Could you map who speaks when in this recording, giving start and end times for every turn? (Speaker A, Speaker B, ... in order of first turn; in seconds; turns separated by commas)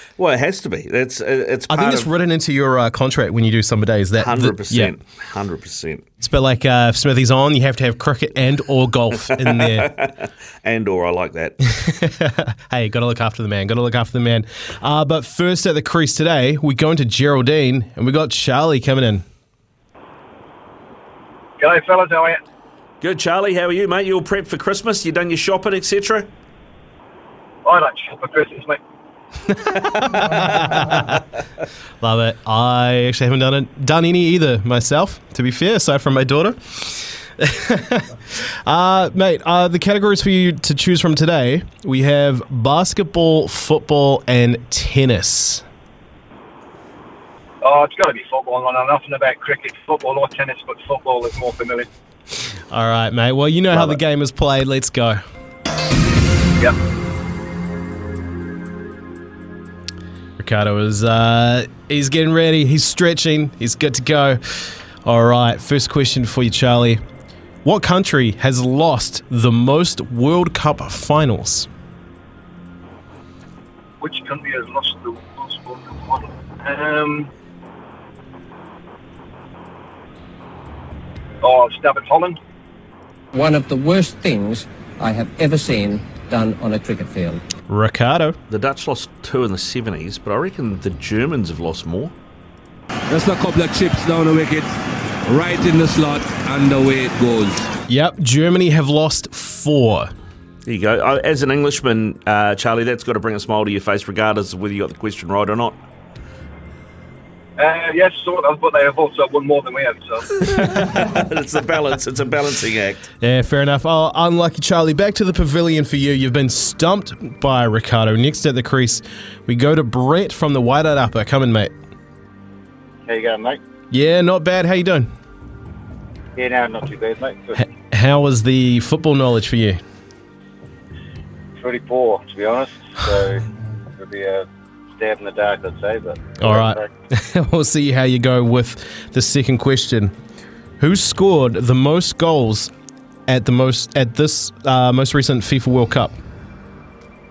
Speaker A: 0.2-2.1, Speaker B: 1.7-4.9, Speaker A: 4.2-6.0, Speaker B: 6.2-9.9, Speaker A: 9.4-11.6, Speaker B: 11.8-19.2, Speaker C: 21.8-22.3, Speaker A: 23.0-26.3, Speaker C: 27.7-28.6, Speaker B: 29.6-31.2, Speaker A: 29.8-30.8, Speaker B: 32.0-38.1, Speaker B: 38.6-45.6, Speaker C: 47.7-51.8, Speaker B: 52.7-55.2, Speaker B: 60.4-67.0, Speaker B: 67.6-71.7, Speaker C: 74.1-74.7, Speaker C: 76.8-77.1, Speaker C: 81.5-82.3, Speaker D: 83.3-87.4, Speaker B: 87.7-88.4, Speaker A: 88.5-92.1, Speaker E: 93.1-94.7, Speaker E: 95.3-97.7, Speaker B: 97.9-100.1, Speaker A: 100.6-105.8, Speaker C: 107.6-110.2, Speaker A: 110.4-113.1, Speaker B: 113.2-121.7, Speaker F: 123.0-123.6, Speaker B: 123.9-125.1, Speaker F: 126.3-127.6, Speaker B: 127.6-129.8, Speaker F: 131.6-133.4, Speaker F: 133.9-136.9, Speaker B: 136.4-140.1, Speaker B: 140.8-142.7, Speaker B: 143.3-146.1